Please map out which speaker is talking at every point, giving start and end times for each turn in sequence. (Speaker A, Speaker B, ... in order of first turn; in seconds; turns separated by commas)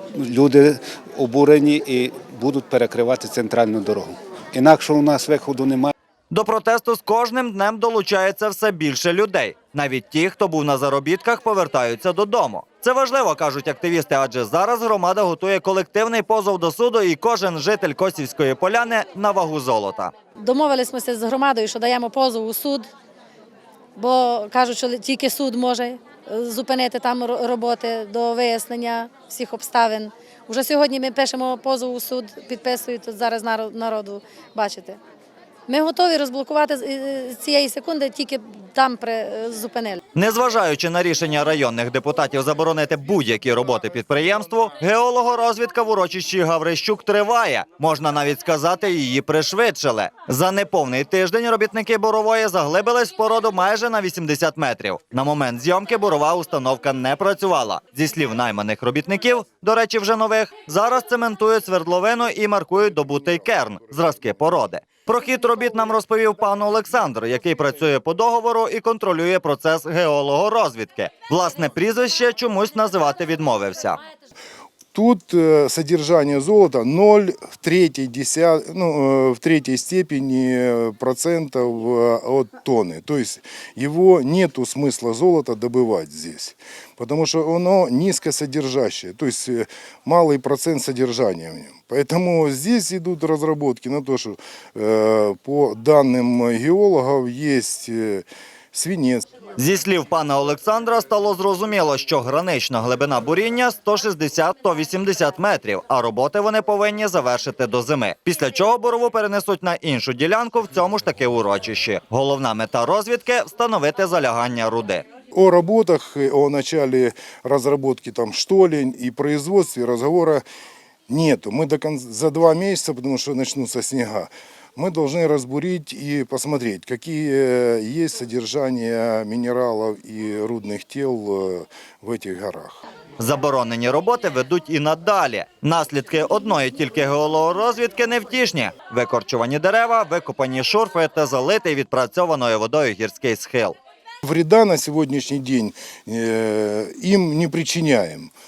Speaker A: 0.2-5.9, Speaker B: 6.3-20.1, Speaker C: 20.4-22.9, Speaker C: 23.9-35.0, Speaker C: 35.7-40.0, Speaker B: 40.1-74.0, Speaker D: 74.9-99.2, Speaker B: 99.6-115.0, Speaker D: 115.3-120.4, Speaker D: 121.1-132.8, Speaker B: 133.2-143.8, Speaker D: 144.2-148.3